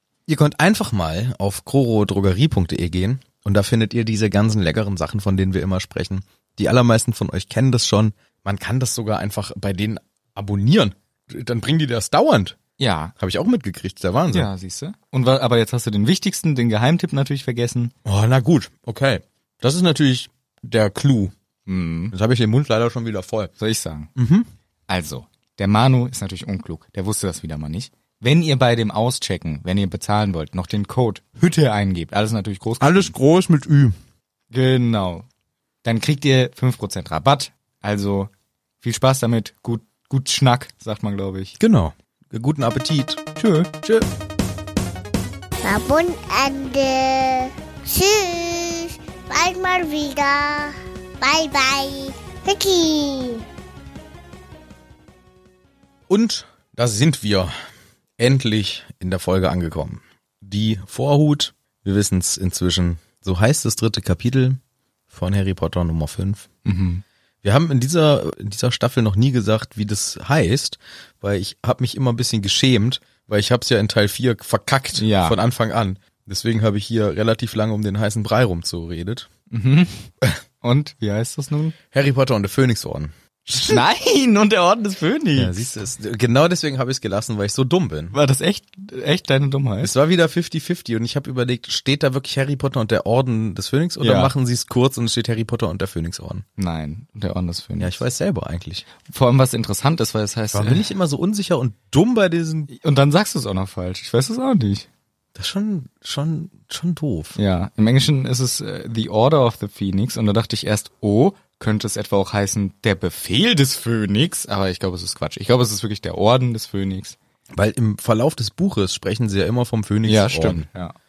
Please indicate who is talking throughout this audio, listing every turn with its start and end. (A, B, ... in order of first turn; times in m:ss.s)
0:00.3-0:12.6 A
0:12.8-0:13.1 B
0:13.2-0:14.5 A
0:14.3-0:17.9 B
0:18.0-0:21.3 A
0:21.7-0:22.1 B
0:22.1-0:23.5 A
0:23.6-0:24.1 B
0:24.2-0:24.5 A
0:24.9-0:33.1 B
0:32.8-0:33.9 A
0:34.5-0:35.2 B
0:35.8-0:38.3 B
0:38.8-0:41.5 B
0:41.6-0:43.2 A
0:43.4-0:43.9 B
0:45.6-0:53.4 C
0:56.1-0:57.5 A
0:58.2-1:06.5 A
1:06.6-1:07.0 B
1:07.4-1:19.3 A
1:15.0-1:15.4 B
1:19.5-1:20.1 B
1:20.6-1:21.8 B
1:21.9-1:23.8 A
1:23.6-1:25.7 B
1:25.4-1:28.2 A
1:28.1-1:29.9 B
1:29.8-1:36.4 A
1:34.0-1:34.3 B
1:36.6-1:38.0 B
1:37.8-1:38.8 A
1:39.0-1:40.9 B
1:40.5-1:42.7 A
1:42.7-1:44.8 B
1:45.3-1:47.4 A
1:47.4-1:57.2 B
1:57.5-2:00.7 A
2:00.1-2:00.9 B